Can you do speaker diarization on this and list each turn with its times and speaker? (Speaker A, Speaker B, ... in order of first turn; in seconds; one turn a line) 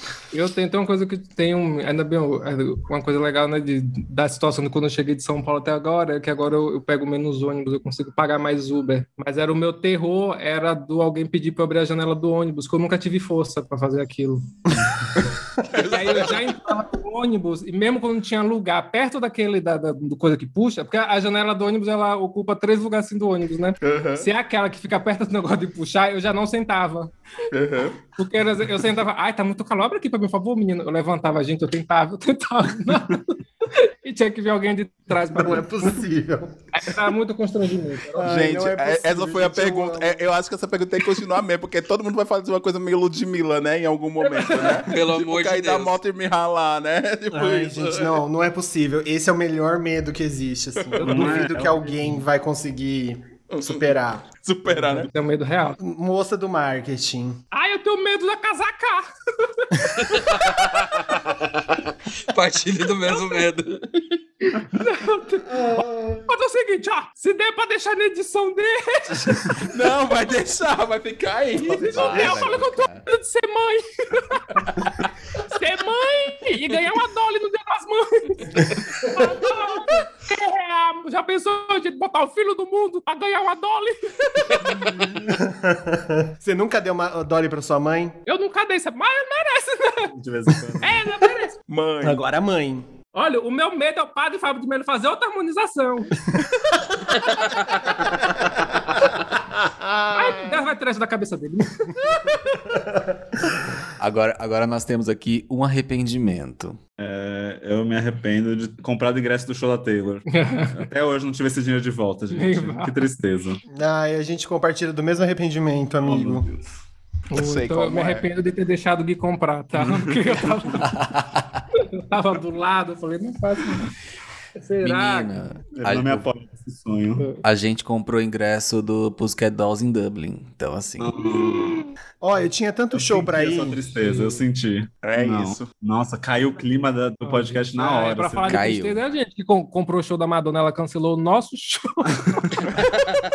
Speaker A: 0.3-14.4
Speaker B: 15.6-16.6
Speaker A: 15.8-27.1
Speaker B: 23.8-24.3
Speaker B: 27.5-28.0
Speaker A: 28.2-36.0
Speaker C: 35.4-36.5
Speaker A: 36.7-38.3
Speaker C: 38.1-40.2
Speaker B: 38.2-48.2
Speaker A: 44.2-44.8
Speaker D: 44.6-46.0
Speaker C: 47.3-54.2
Speaker A: 51.0-52.0
Speaker E: 51.0-51.9
Speaker B: 53.5-55.1
Speaker A: 54.8-55.8
Speaker C: 55.8-57.4
Speaker A: 57.5-61.1
Speaker D: 60.0-64.2
Speaker A: 63.1-63.4
Speaker A: 64.5-69.7
Speaker C: 65.5-66.3
Speaker B: 69.7-72.4
Speaker F: 71.8-73.0
Speaker A: 71.8-85.0
Speaker C: 79.2-79.4
Speaker C: 85.1-88.2
Speaker A: 88.3-90.1
Speaker E: 90.1-91.0
Speaker A: 90.8-91.6
Speaker B: 91.7-92.2
Speaker C: 92.0-92.9
Speaker A: 93.2-96.2
Speaker C: 99.6-100.5
Speaker A: 100.1-102.7
Speaker C: 102.7-103.5
Speaker F: 104.0-106.8
Speaker E: 107.0-113.6
Speaker A: 110.3-110.9
Speaker A: 112.3-112.9
Speaker C: 113.7-116.5
Speaker E: 116.0-116.6
Speaker A: 117.3-120.8
Speaker B: 117.3-118.3
Speaker F: 120.8-121.4
Speaker A: 121.8-123.9
Speaker A: 124.6-125.3
Speaker F: 124.8-126.3
Speaker E: 125.8-127.3
Speaker A: 127.2-127.4
Speaker F: 127.4-131.3
Speaker E: 131.0-131.9
Speaker C: 132.2-133.8
Speaker E: 132.9-138.7
Speaker A: 134.0-134.4
Speaker B: 135.0-135.7
Speaker A: 137.2-142.7
Speaker F: 138.5-139.0
Speaker B: 142.7-143.1